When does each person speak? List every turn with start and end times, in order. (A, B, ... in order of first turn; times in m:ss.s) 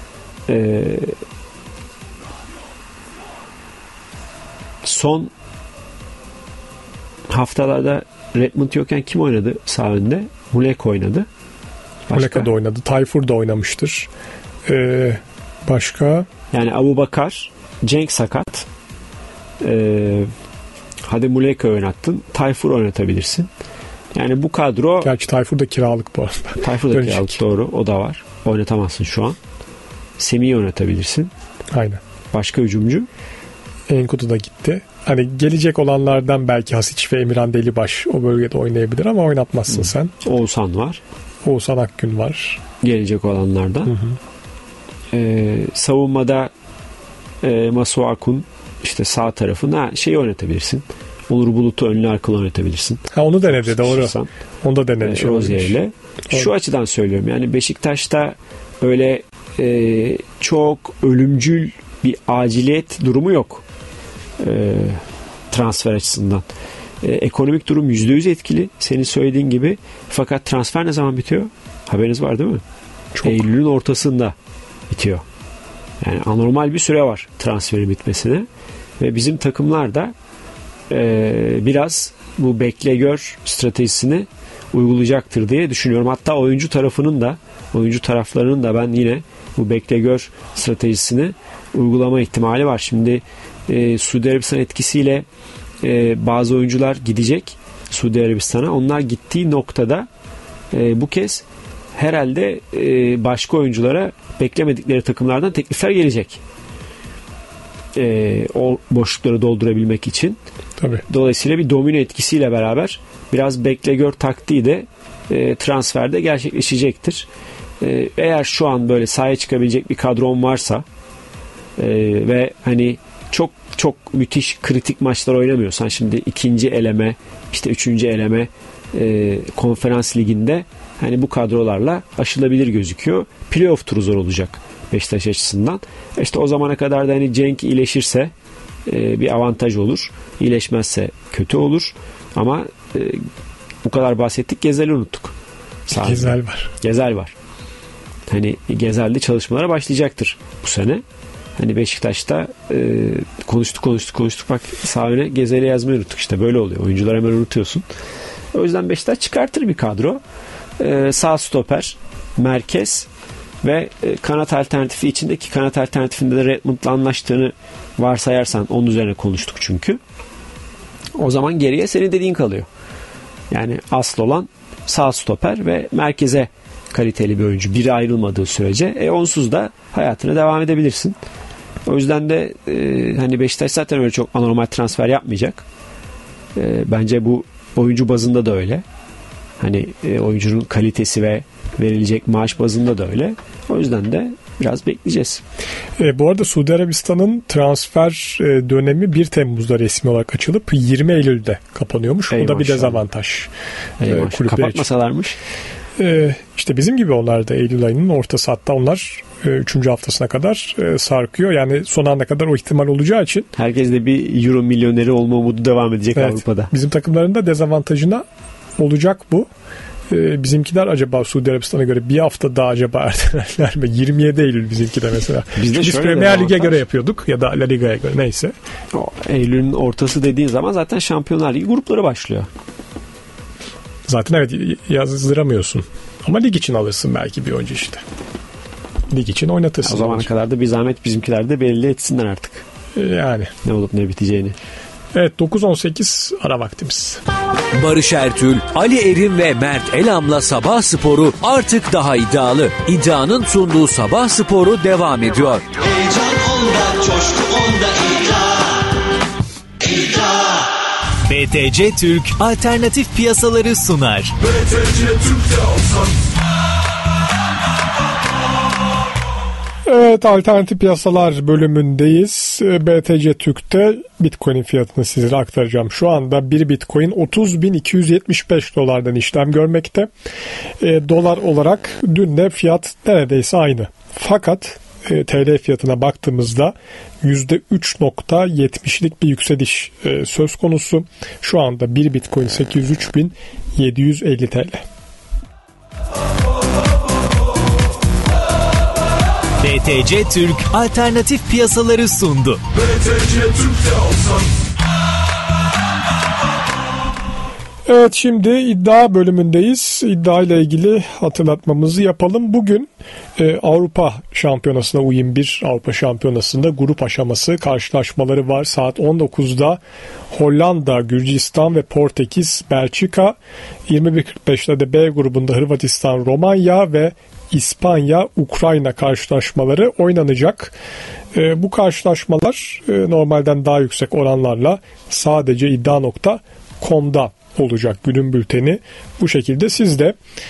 0:00.5-0:01.2 A
0:04.8-0:05.3 A
0:07.3-0:11.3 A
0:12.1-0:12.5 A
0:12.1-0:14.1 B
0:14.6-0:16.2 B
0:16.5-0:18.7 A
0:19.6-0:20.3 A
0:21.0-0:23.5 A
0:24.1-0:25.1 A
0:25.0-0:27.4 B
0:26.6-0:29.4 A
0:30.2-0:31.3 A
0:31.7-0:32.0 B
0:32.3-0:33.1 A
0:33.9-0:40.1 B
0:39.7-0:41.0 A
0:41.4-0:42.6 B
0:42.8-0:44.0 A
0:43.9-0:44.2 B
0:45.1-0:46.5 A
0:47.4-0:54.3 A
0:53.1-0:55.8 B
0:55.0-1:03.6 A
1:04.4-1:06.4 A
1:07.0-1:12.6 A
1:13.1-1:13.4 B
1:13.2-1:14.3 A
1:14.9-1:15.2 A
1:16.0-1:18.5 A
1:19.0-1:20.1 A
1:20.9-1:35.2 A
1:35.8-1:40.1 A
1:40.7-1:46.4 A
1:47.9-1:50.4 A
1:51.0-1:57.3 A
1:57.8-2:00.8 A
2:01.8-2:18.3 A
2:18.8-2:23.2 A
2:23.8-2:25.3 A
2:25.9-2:26.7 B
2:25.9-2:27.3 A
2:28.3-2:31.0 A
2:31.6-2:37.8 A
2:38.5-2:40.2 A
2:40.8-2:43.1 A
2:43.6-2:50.0 A
2:51.2-2:52.7 A
2:53.5-3:01.2 A
3:01.8-3:05.6 A
3:06.5-3:08.8 A
3:09.6-3:15.4 A
3:16.0-3:23.5 B
3:22.3-3:23.0 A
3:24.0-3:25.4 A
3:24.0-3:24.9 B
3:26.0-3:33.5 B
3:33.5-3:36.7 A
3:36.2-3:38.2 B
3:38.8-3:39.5 B
3:40.1-3:48.5 B
3:45.5-3:46.8 A
3:48.9-3:52.5 A
3:54.1-3:58.0 B
3:59.1-4:00.3 B
3:59.8-4:02.6 A
4:02.9-4:03.5 B
4:03.6-4:04.6 A
4:05.1-4:07.2 B
4:07.7-4:18.5 C
4:21.2-4:24.5 D
4:29.8-4:40.1 B
4:40.8-4:54.8 B
4:59.6-5:04.0 D
5:07.9-5:19.8 B
5:20.3-5:23.3 B
5:23.9-5:30.7 B
5:31.3-5:40.2 B